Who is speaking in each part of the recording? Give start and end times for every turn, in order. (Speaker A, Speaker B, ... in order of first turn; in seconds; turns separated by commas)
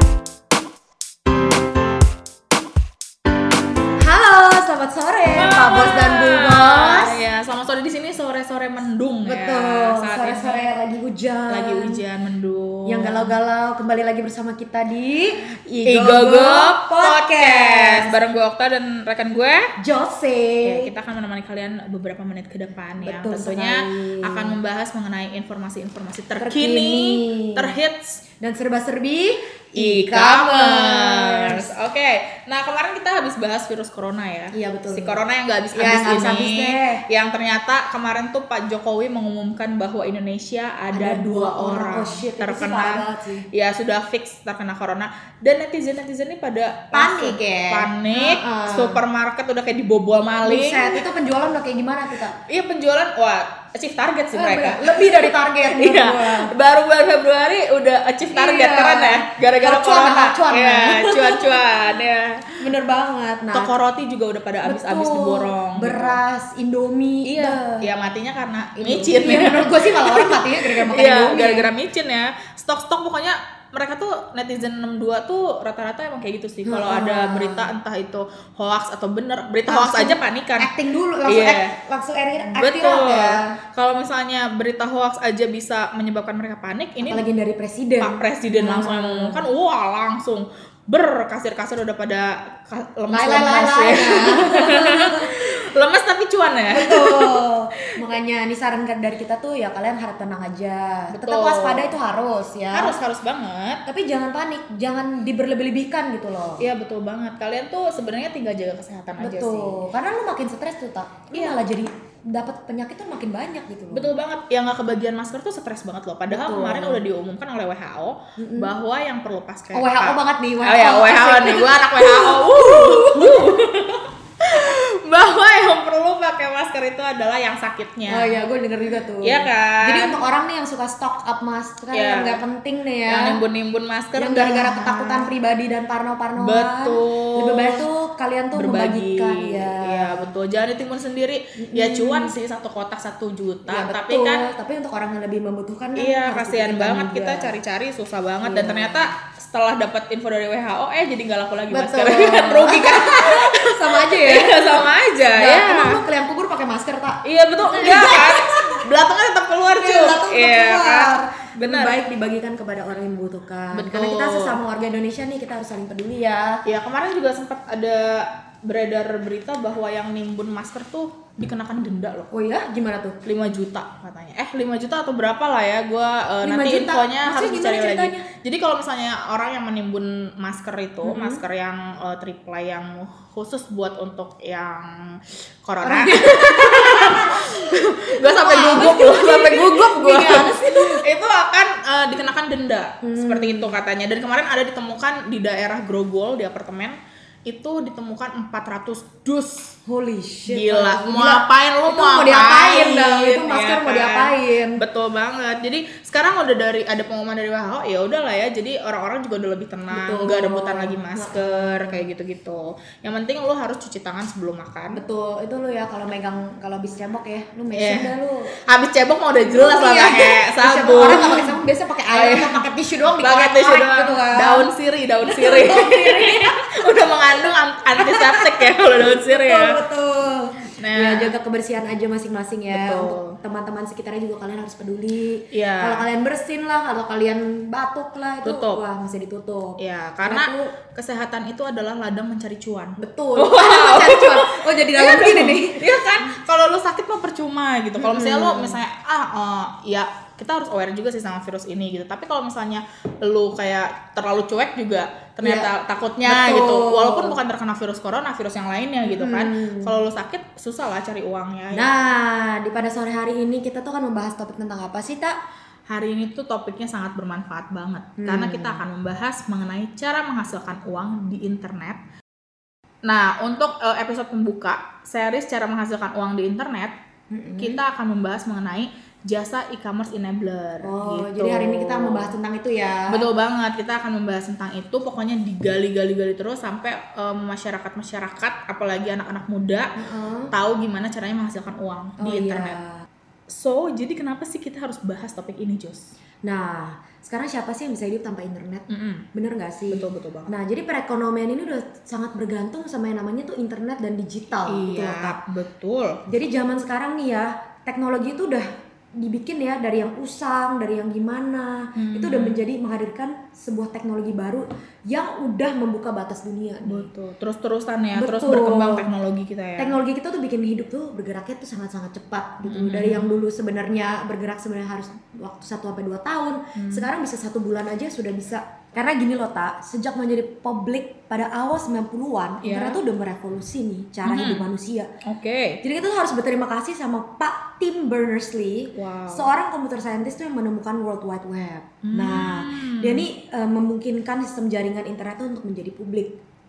Speaker A: 4.0-7.2, Speaker B: 5.4-10.7, Speaker A: 9.3-12.0, Speaker B: 11.5-13.3, Speaker A: 12.9-18.1, Speaker B: 15.9-19.6, Speaker A: 19.8-20.9, Speaker B: 20.6-28.2, Speaker A: 23.0-24.6, Speaker A: 26.4-27.7, Speaker A: 28.4-31.7, Speaker B: 29.8-51.0, Speaker A: 34.5-35.2, Speaker A: 35.7-37.0, Speaker A: 40.9-43.5, Speaker A: 46.9-49.0, Speaker A: 50.4-52.4, Speaker B: 52.5-62.6, Speaker A: 54.3-56.5, Speaker A: 58.3-61.6, Speaker A: 62.6-63.7, Speaker B: 63.5-66.2, Speaker A: 64.6-67.9, Speaker B: 67.2-80.7, Speaker A: 68.8-71.7, Speaker A: 76.7-77.7, Speaker A: 79.7-83.6, Speaker B: 81.2-81.7, Speaker B: 82.5-87.2, Speaker A: 87.0-89.4, Speaker B: 88.0-97.4, Speaker A: 93.1-95.5, Speaker A: 96.7-103.0, Speaker B: 101.1-101.9, Speaker B: 102.7-103.8, Speaker A: 103.9-106.6, Speaker B: 106.6-109.8, Speaker A: 109.2-114.1, Speaker B: 111.3-111.6, Speaker B: 113.9-128.4, Speaker A: 116.3-117.0, Speaker A: 118.4-118.7, Speaker A: 119.7-123.5, Speaker A: 128.1-133.4, Speaker B: 129.2-130.2, Speaker B: 131.9-132.4, Speaker B: 133.1-135.3, Speaker A: 134.2-140.3, Speaker B: 136.4-137.9, Speaker B: 138.6-144.4, Speaker A: 141.6-142.4, Speaker A: 143.7-147.6, Speaker B: 146.0-156.0, Speaker A: 148.4-149.1, Speaker A: 151.7-158.8, Speaker B: 157.2-162.0, Speaker A: 159.7-166.6, Speaker B: 163.7-164.6, Speaker B: 166.7-172.3, Speaker A: 172.3-173.2, Speaker B: 173.2-199.7, Speaker A: 176.4-178.3, Speaker A: 181.0-181.4, Speaker A: 185.8-191.0, Speaker A: 193.0-193.8, Speaker A: 199.9-204.8, Speaker B: 200.5-215.0, Speaker A: 209.9-212.0, Speaker A: 214.9-218.6, Speaker B: 217.7-218.1, Speaker B: 218.7-221.5, Speaker A: 219.5-224.7, Speaker B: 222.1-222.6, Speaker B: 223.2-229.8, Speaker A: 225.3-226.6, Speaker A: 228.0-240.7, Speaker B: 230.8-231.3, Speaker B: 232.7-233.4, Speaker B: 235.5-236.1, Speaker B: 238.4-238.8, Speaker B: 239.8-261.9, Speaker A: 243.0-246.2, Speaker A: 248.0-248.8, Speaker A: 255.4-255.7, Speaker A: 256.2-257.4, Speaker A: 259.1-260.0, Speaker A: 261.7-265.4, Speaker B: 265.9-272.0, Speaker A: 268.2-268.8, Speaker B: 273.1-276.9, Speaker A: 277.3-277.8, Speaker B: 277.6-282.3, Speaker A: 280.8-283.3, Speaker B: 283.1-290.0, Speaker A: 290.0-290.5, Speaker B: 290.5-292.8, Speaker A: 292.2-293.0, Speaker B: 293.5-296.1, Speaker A: 296.4-305.4, Speaker B: 298.9-299.3, Speaker B: 299.9-300.5, Speaker B: 304.7-306.2, Speaker A: 306.3-317.1, Speaker B: 312.0-312.6, Speaker B: 316.9-320.0, Speaker A: 318.2-319.1, Speaker A: 319.8-335.1, Speaker B: 322.6-323.3, Speaker B: 326.8-327.1, Speaker B: 332.6-333.0, Speaker B: 334.2-334.7, Speaker B: 335.3-335.8, Speaker A: 335.8-346.4, Speaker B: 338.9-339.5, Speaker B: 342.0-343.3